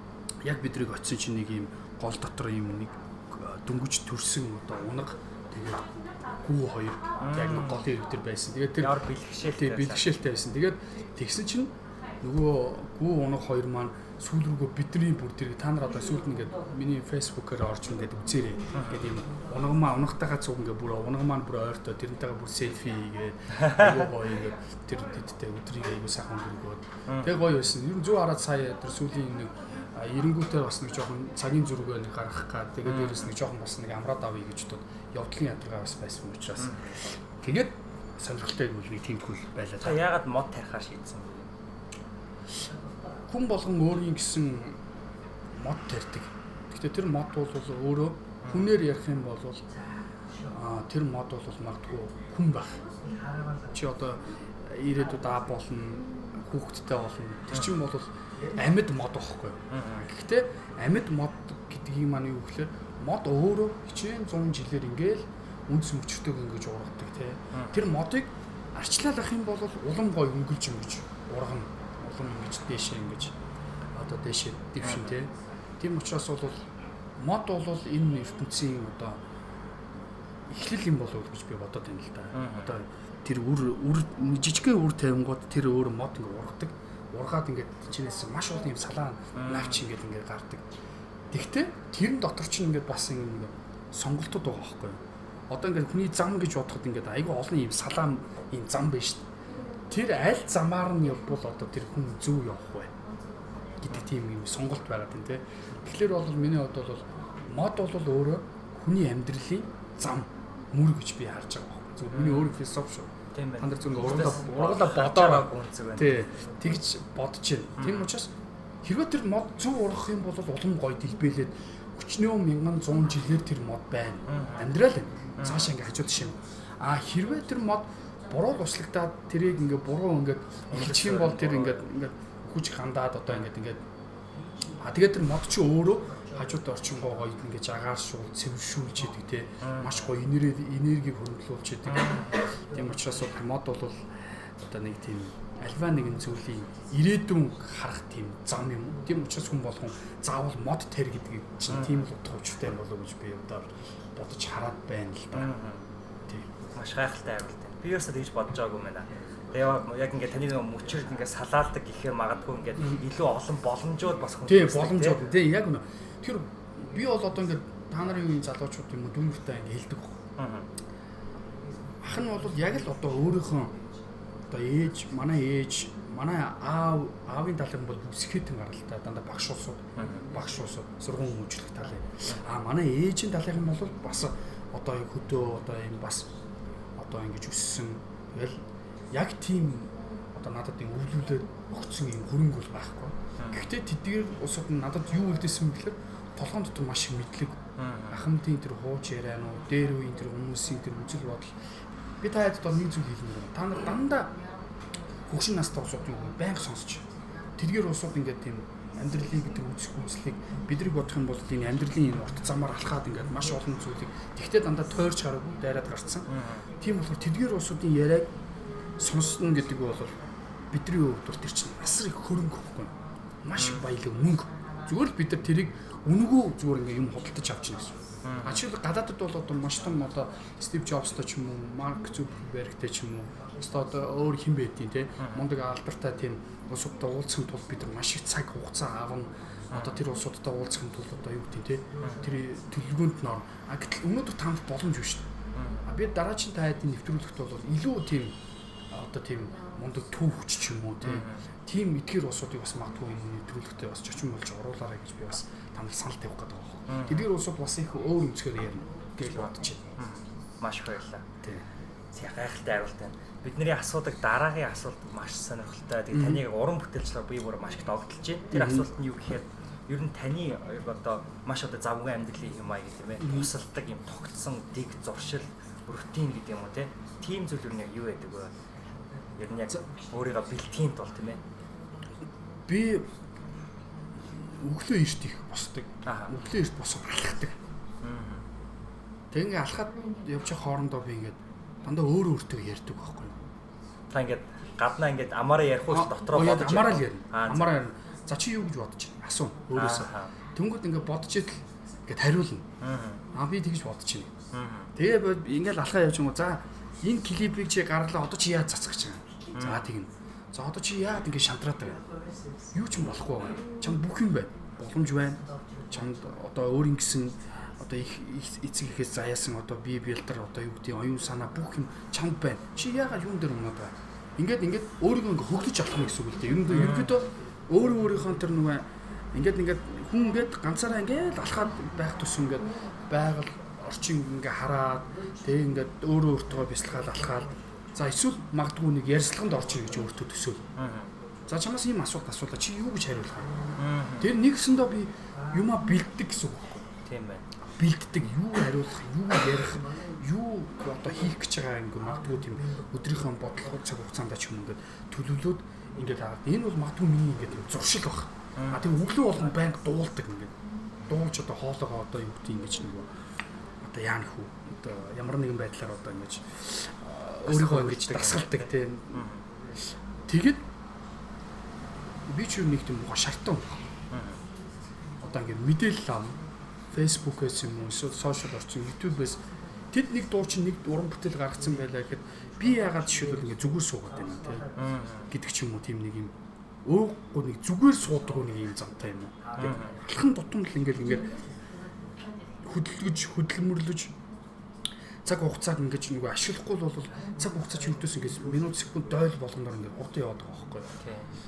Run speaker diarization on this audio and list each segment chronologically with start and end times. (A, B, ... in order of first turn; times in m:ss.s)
0:00.4-0:40.0 A
0:07.2-0:07.8 B
0:08.8-0:10.1 B
0:18.7-0:19.0 B
0:23.5-0:24.0 B
0:27.1-0:27.3 B
0:32.8-0:33.3 B
0:36.6-0:37.0 B
0:39.8-0:41.5 B
0:43.3-0:44.8 A
0:45.5-0:49.6 A
0:48.4-0:48.7 B
0:50.5-0:52.8 A
0:53.7-1:13.4 A
0:59.7-1:00.0 B
1:07.5-1:07.8 B
1:13.9-1:19.2 A
1:14.8-1:15.2 B
1:20.5-1:30.7 A
1:22.3-1:22.7 B
1:29.3-1:29.8 B
1:31.3-1:39.3 A
1:39.9-1:42.9 A
1:43.8-2:13.8 A
1:52.1-1:52.6 B
1:53.3-1:56.3 B
1:57.8-1:58.1 B
2:04.3-2:04.7 B
2:05.4-2:05.7 B
2:10.7-2:11.8 B
2:14.8-2:35.5 A
2:19.6-2:20.1 B
2:21.9-2:22.3 B
2:31.7-2:32.0 B
2:35.3-2:35.9 B
2:36.3-2:36.5 A
2:36.7-2:45.2 B
2:44.4-2:50.2 A
2:50.4-2:50.7 B
2:52.0-2:53.8 A
2:54.5-3:06.3 A
3:00.0-3:00.2 B
3:07.0-3:21.6 A
3:13.4-3:13.7 B
3:17.8-3:18.2 B
3:22.2-3:24.4 A
3:25.2-3:38.3 A
3:36.3-3:36.7 B
3:39.0-3:40.2 A
3:40.7-4:05.3 A
3:43.6-3:43.8 B
3:48.2-3:48.6 B
3:59.7-4:00.0 B
4:05.6-4:05.8 B
4:05.8-4:08.4 A
4:08.9-4:19.8 A
4:11.0-4:11.4 B
4:16.9-4:17.2 B
4:19.2-4:21.2 B
4:22.1-4:38.5 B
4:26.1-4:26.4 A
4:28.5-4:28.9 A
4:33.2-4:33.5 A
4:39.4-4:41.4 B
4:42.7-4:43.1 A
4:44.2-4:47.6 A
4:46.0-4:46.4 B
4:48.0-4:48.4 B
4:49.3-4:53.4 A
4:54.1-4:57.8 B
4:55.9-5:02.6 A
4:59.7-5:00.3 B
5:02.8-5:03.2 B
5:03.3-5:04.3 A
5:04.5-5:04.9 B
5:04.9-5:12.0 A
5:09.5-5:09.9 B
5:12.7-5:40.6 A
5:26.7-5:27.3 B
5:40.8-5:41.1 B
5:41.5-5:43.5 A
5:43.8-5:44.3 B
5:44.2-5:46.9 A
5:47.0-5:47.4 B
5:47.6-6:00.5 A
5:58.6-5:58.9 B
6:01.1-6:03.1 A
6:03.8-6:10.6 A
6:07.4-6:09.4 B
6:12.2-6:13.9 A
6:14.1-6:14.4 B
6:15.2-6:24.7 A
6:24.8-6:25.3 B
6:25.3-6:31.3 A
6:29.6-6:30.0 B
6:32.6-6:34.1 A
6:35.2-6:41.0 A
6:41.0-6:41.4 B